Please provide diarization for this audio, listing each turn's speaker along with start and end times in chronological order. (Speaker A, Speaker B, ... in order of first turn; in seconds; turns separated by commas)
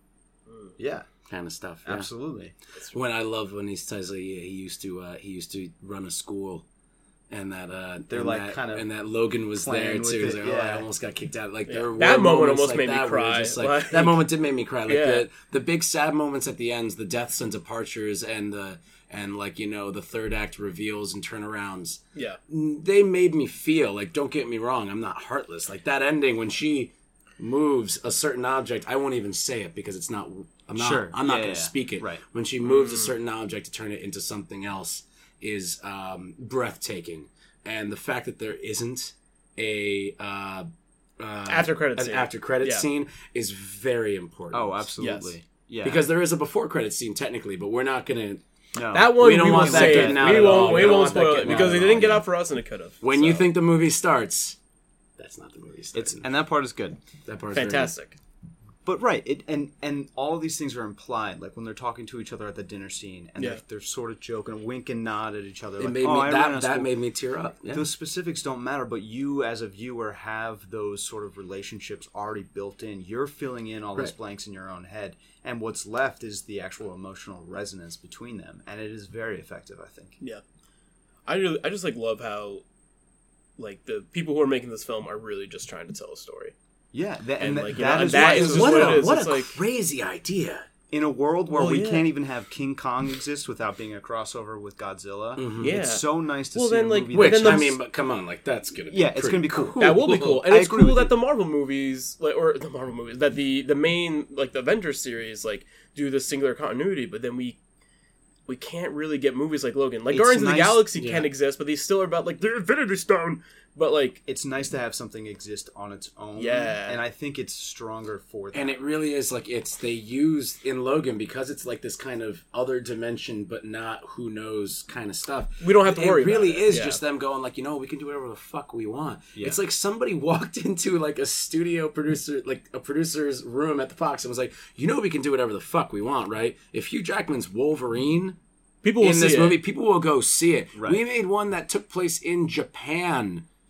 Speaker A: 0.5-0.8, Speaker B: 0.8-1.1, Speaker C: 1.3-2.1, Speaker B: 1.8-2.5, Speaker C: 2.9-6.6, Speaker C: 7.3-40.7, Speaker B: 8.1-8.9, Speaker B: 9.6-10.9, Speaker A: 11.7-14.2, Speaker A: 14.9-15.2, Speaker B: 30.8-32.2, Speaker A: 32.6-33.1, Speaker C: 41.2-44.9, Speaker A: 41.5-42.8, Speaker B: 44.5-46.0, Speaker A: 45.0-45.3, Speaker C: 45.8-48.4, Speaker B: 48.7-52.2, Speaker A: 48.9-53.5, Speaker C: 49.1-52.2, Speaker C: 53.0-54.6, Speaker C: 55.2-56.3, Speaker B: 55.9-57.0, Speaker C: 57.3-57.9, Speaker A: 57.5-58.1, Speaker B: 58.8-66.9, Speaker C: 65.8-67.8, Speaker B: 67.7-80.2, Speaker A: 81.3-82.6, Speaker A: 83.6-86.5, Speaker B: 86.9-89.1, Speaker A: 87.4-89.6, Speaker C: 88.2-90.7, Speaker B: 90.9-97.8, Speaker A: 91.5-92.1, Speaker C: 95.4-95.8, Speaker A: 95.6-97.8, Speaker C: 97.1-100.3, Speaker B: 98.9-101.1, Speaker A: 99.8-107.6, Speaker A: 108.5-114.2, Speaker B: 110.1-110.8, Speaker C: 111.0-111.3, Speaker B: 114.2-118.8, Speaker A: 116.4-117.0, Speaker C: 118.5-138.4, Speaker A: 125.6-127.0, Speaker A: 138.8-139.6, Speaker C: 139.0-143.4, Speaker B: 140.8-141.0